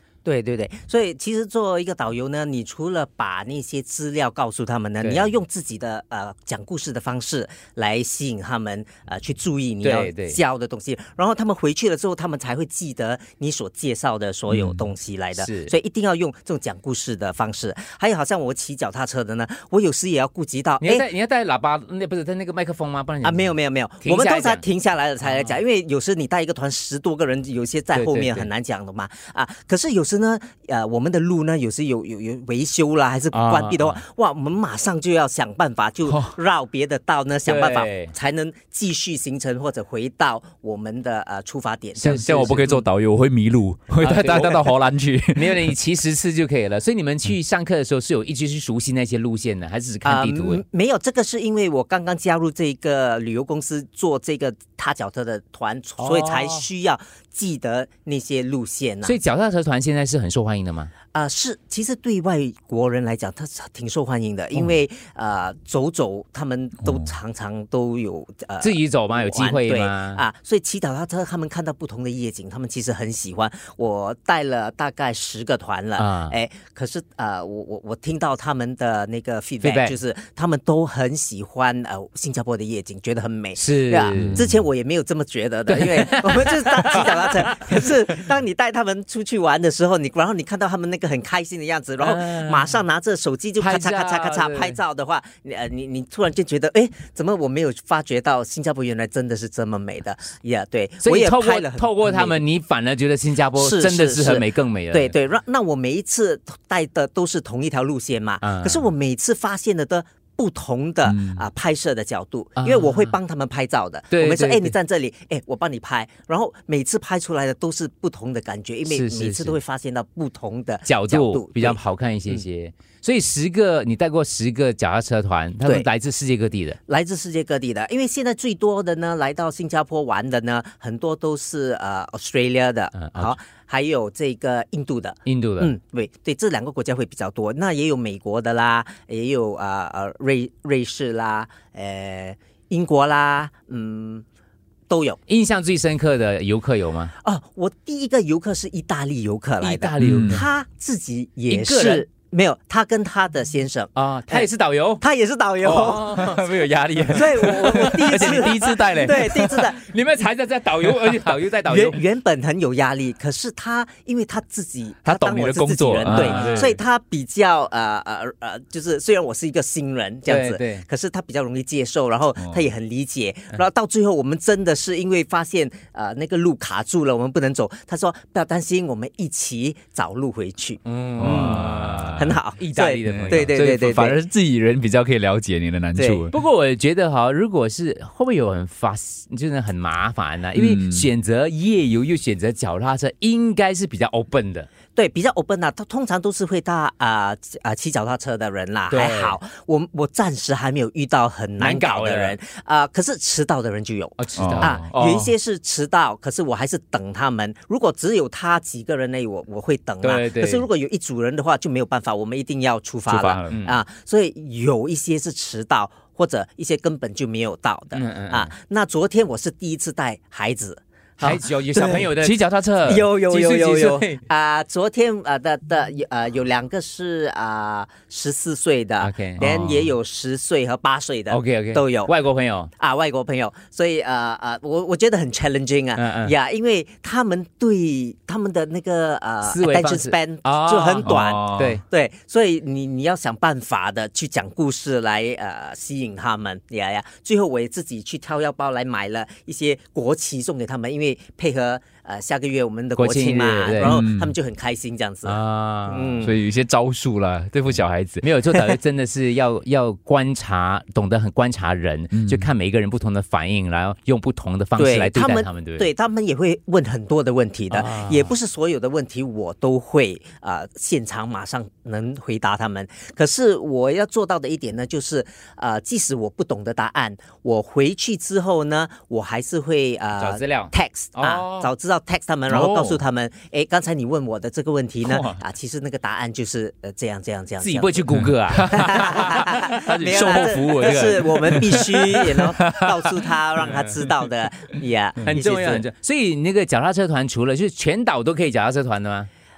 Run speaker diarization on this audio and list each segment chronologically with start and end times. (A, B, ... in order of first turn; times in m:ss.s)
0:00.2-0:21.1 A
0:05.0-0:05.3 B
0:09.8-0:10.4 B
0:14.5-0:14.8 C
0:15.4-0:15.7 B
0:20.8-0:24.6 B
0:23.2-0:42.3 A
0:25.2-0:25.6 B
0:27.9-0:28.5 B
0:33.3-0:34.0 B
0:36.0-0:36.4 C
0:37.4-0:38.1 B
0:42.0-0:42.8 B
0:42.0-0:45.7 C
0:44.0-0:44.7 B
0:45.3-0:50.6 B
0:50.0-0:59.1 A
0:56.0-0:56.6 B
0:59.0-1:00.9 B
1:01.1-1:42.4 A
1:06.8-1:07.1 C
1:08.6-1:10.2 B
1:16.0-1:16.3 B
1:19.6-1:20.0 B
1:23.5-1:24.4 B
1:24.1-1:24.4 C
1:25.7-1:27.9 B
1:32.0-1:32.7 B
1:33.6-1:34.8 B
1:41.0-1:45.1 B
1:43.6-2:02.4 A
1:48.4-1:48.8 B
1:51.0-1:51.4 C
1:52.6-1:53.1 B
1:54.1-1:54.7 B
1:58.9-1:59.6 B
2:00.8-2:06.8 B
2:05.6-2:05.9 A
2:06.9-2:24.2 A
2:12.9-2:13.4 B
2:15.2-2:15.7 B
2:24.9-2:25.2 A
2:25.3-2:27.1 B
2:27.2-2:34.5 A
2:29.6-2:30.4 B
2:30.0-2:30.4 C
2:31.5-2:32.0 B
2:33.9-2:35.0 B
2:35.0-2:36.3 A
2:35.6-2:42.0 B
2:35.6-2:39.7 C
2:37.1-2:39.8 A
2:41.6-3:04.2 A
2:45.0-2:46.8 C
2:46.1-2:46.8 B
2:50.3-2:50.8 B
2:52.4-2:52.7 C
3:00.8-3:03.6 B
3:01.2-3:02.4 C
3:03.1-3:06.3 C
3:06.0-3:06.3 A
3:06.3-3:14.7 B
3:10.5-3:11.1 C
3:14.9-3:42.1 A
3:18.9-3:19.4 B
3:21.6-3:22.3 B
3:24.2-3:24.8 B
3:24.4-3:25.3 C
3:30.0-3:30.6 B
3:33.1-3:33.6 C
3:33.5-3:33.8 B
3:37.9-3:38.5 B
3:41.2-3:44.2 B
3:42.2-3:43.0 C
3:42.8-3:52.1 A
3:49.0-3:49.4 B
3:49.4-3:49.9 C
3:51.3-3:52.7 B
3:52.8-4:16.3 A
3:56.0-3:56.3 B
3:59.4-4:01.8 B
4:01.0-4:01.8 C
4:13.0-4:14.0 B
4:13.7-4:14.3 C
4:15.2-4:16.2 B
4:16.2-4:18.2 C
4:18.2-4:25.9 B
4:22.1-4:22.5 C
4:24.8-4:48.1 A
4:27.7-4:28.3 B
4:40.2-4:41.7 B
4:42.5-4:43.0 C
4:45.0-4:45.4 C
4:47.6-4:51.8 B
4:48.1-4:53.3 C
4:48.6-4:55.8 A
4:53.6-4:53.9 B
4:55.2-4:59.3 B